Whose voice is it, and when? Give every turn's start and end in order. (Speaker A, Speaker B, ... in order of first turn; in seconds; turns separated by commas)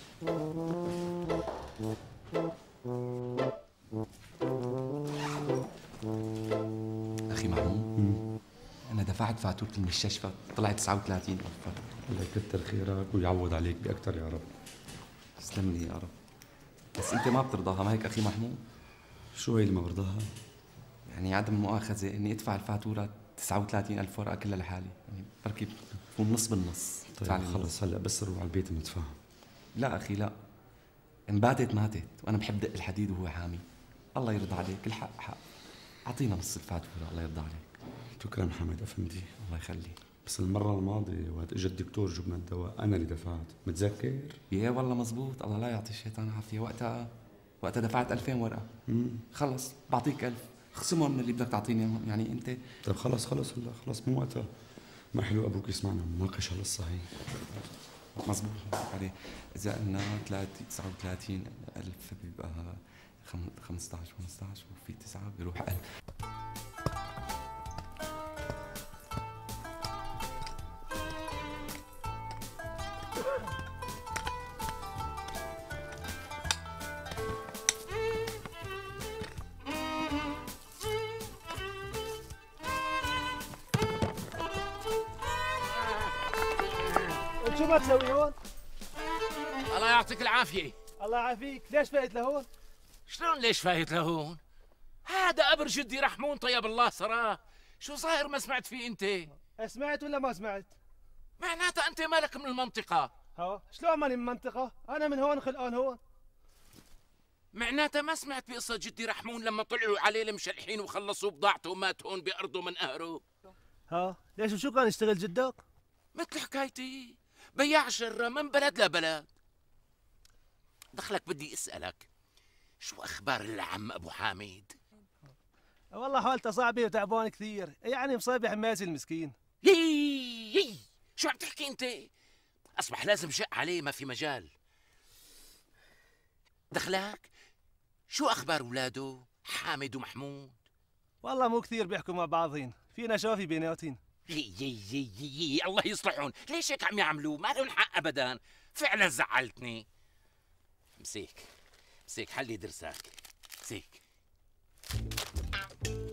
Speaker A: 7.3-7.9, Speaker B: 8.0-8.2, Speaker A: 8.9-11.8, Speaker B: 12.1-14.5, Speaker A: 15.4-16.1, Speaker A: 16.9-18.6, Speaker B: 19.3-20.3, Speaker A: 21.1-27.7, Speaker B: 27.2-29.2, Speaker A: 29.8-30.4, Speaker A: 31.3-35.4, Speaker A: 36.1-37.7, Speaker B: 38.2-39.3, Speaker A: 39.4-40.0, Speaker B: 40.2-44.4, Speaker A: 44.5-47.1, Speaker A: 47.6-48.7, Speaker B: 48.9-49.2, Speaker A: 49.3-52.6, Speaker B: 52.8-54.5, Speaker B: 55.1-57.1, Speaker A: 58.2-65.8, Speaker C: 87.4-88.3, Speaker D: 89.7-90.8, Speaker C: 91.0-92.5, Speaker D: 93.1-94.4, Speaker D: 95.0-99.3, Speaker C: 99.6-100.7, Speaker D: 101.4-103.1, Speaker C: 103.4-106.0, Speaker D: 107.5-113.2, Speaker C: 113.9-115.6, Speaker D: 116.1-119.3, Speaker D: 120.9-122.1, Speaker D: 122.8-124.7, Speaker C: 125.9-129.3, Speaker D: 129.6-132.1, Speaker D: 132.8-134.5, Speaker D: 136.7-137.3, Speaker D: 138.1-140.6, Speaker C: 141.2-144.0, Speaker D: 144.3-149.8, Speaker D: 151.0-151.5, Speaker D: 152.1-154.0